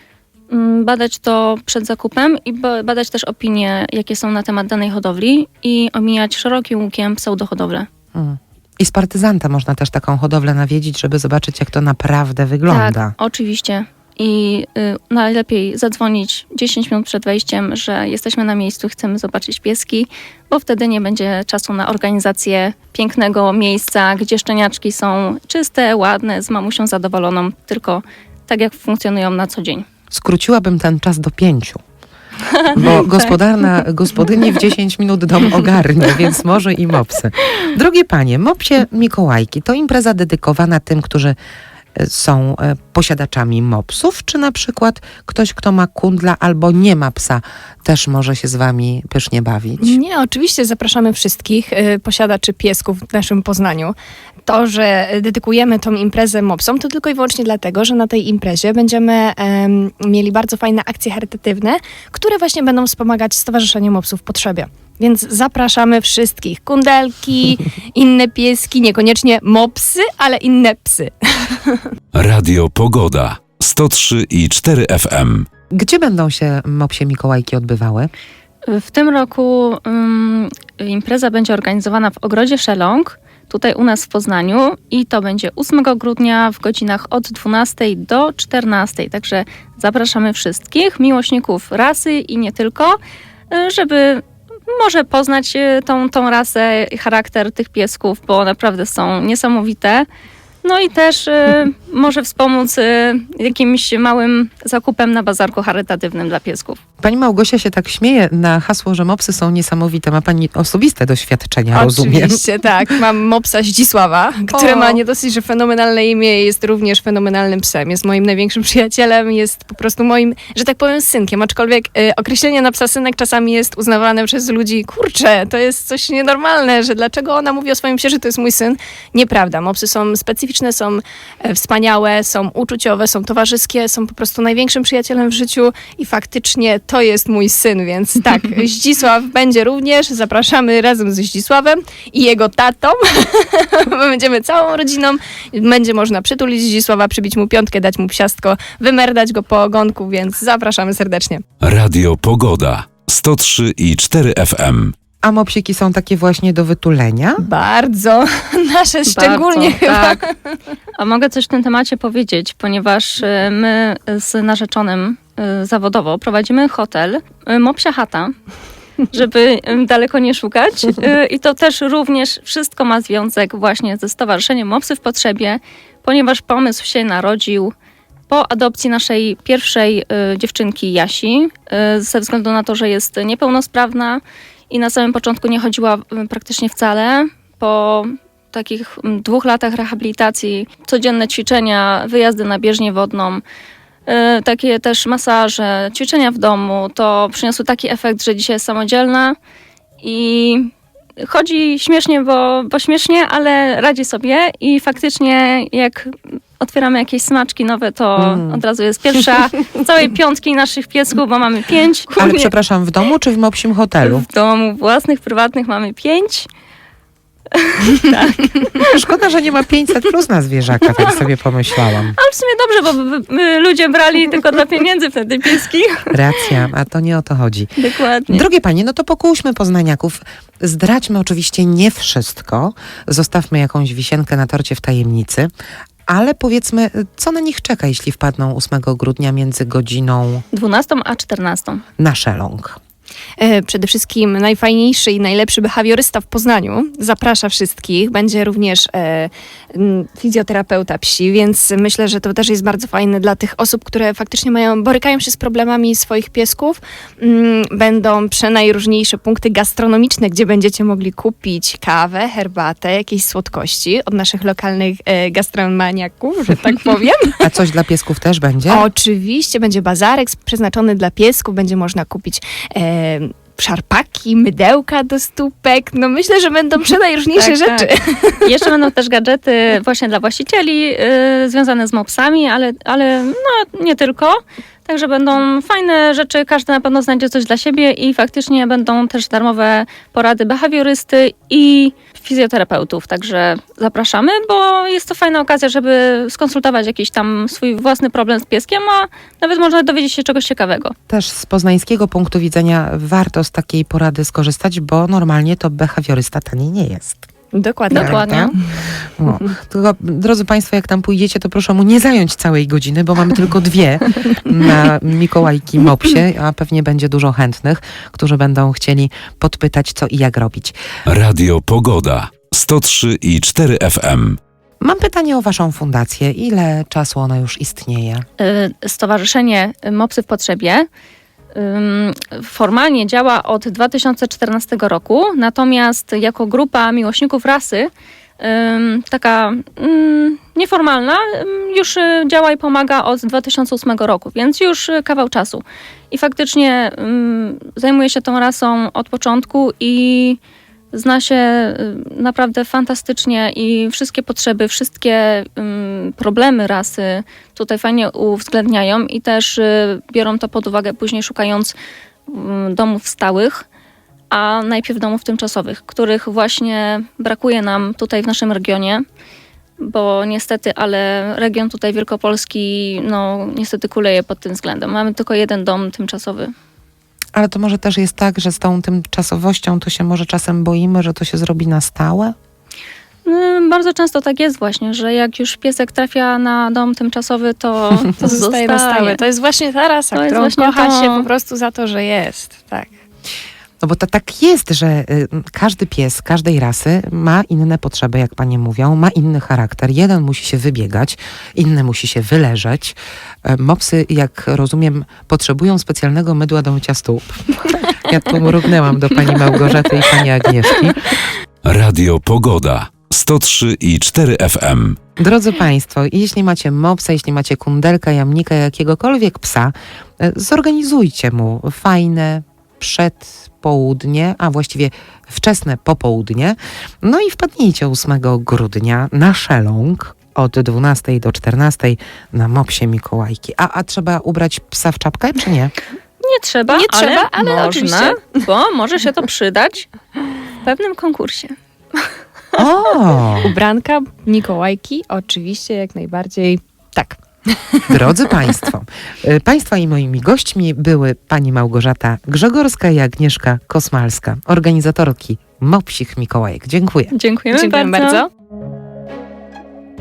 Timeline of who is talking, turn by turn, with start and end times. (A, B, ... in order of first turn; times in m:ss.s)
0:00.5-0:07.9 A
0:08.1-0:13.1 B
0:12.7-0:29.8 A
0:30.1-0:31.8 B
0:32.5-0:33.3 A
0:32.7-0:41.4 B
0:42.0-0:50.0 B
0:49.8-0:53.9 C
0:54.4-1:11.8 C
1:12.1-1:15.4 D
1:15.7-1:18.1 B
1:18.7-1:33.0 A
1:33.5-1:40.1 A
1:40.6-1:46.8 A
1:47.0-1:52.4 B
1:51.7-2:31.4 C
1:54.5-1:55.0 A
2:31.6-2:34.9 D
2:35.2-2:37.4 B
2:37.4-2:40.3 C
2:39.0-2:40.2 A
2:41.0-2:48.3 A
2:49.1-2:57.7 A
2:58.3-3:13.4 A
3:14.0-3:19.4 A
3:20.0-3:32.5 A
3:28.2-3:28.6 B
3:32.2-3:34.2 B
3:34.0-3:36.5 A
3:37.5-3:38.9 A
3:38.8-3:42.2 B
3:42.1-3:46.5 A
3:46.1-3:47.7 B
3:47.8-3:48.5 A
3:48.3-3:55.5 B
3:56.1-4:00.4 B
4:00.5-4:01.8 A
4:02.0-4:02.8 B
4:03.4-4:27.4 C
4:27.4-4:28.8 B
4:28.7-4:38.7 C
4:37.4-4:37.9 A
4:38.4-5:00.9 A
5:01.1-5:07.2 B
5:07.5-5:08.4 C
5:07.9-5:08.5 A
5:07.9-5:08.5 B
5:09.2-5:20.8 B
5:21.1-5:24.4 D
5:24.8-5:28.2 B
5:28.4-5:30.9 A
5:31.5-5:50.4 A
5:50.9-6:01.7 A
6:02.3-6:03.6 A
6:04.3-6:09.0 A
6:09.8-6:16.5 A
6:17.3-6:22.3 B
6:23.2-6:29.2 A
6:28.2-6:32.9 C
6:30.1-6:31.3 A
6:33.8-6:51.2 B
6:51.6-6:55.0 D
6:55.2-7:15.7 B
7:16.2-7:19.9 A
7:16.7-7:18.3 C
7:20.6-7:21.5 A
7:22.6-7:23.5 B
7:23.4-7:27.9 C
7:27.9-7:37.1 B
7:37.1-7:38.2 A
7:37.5-7:38.3 C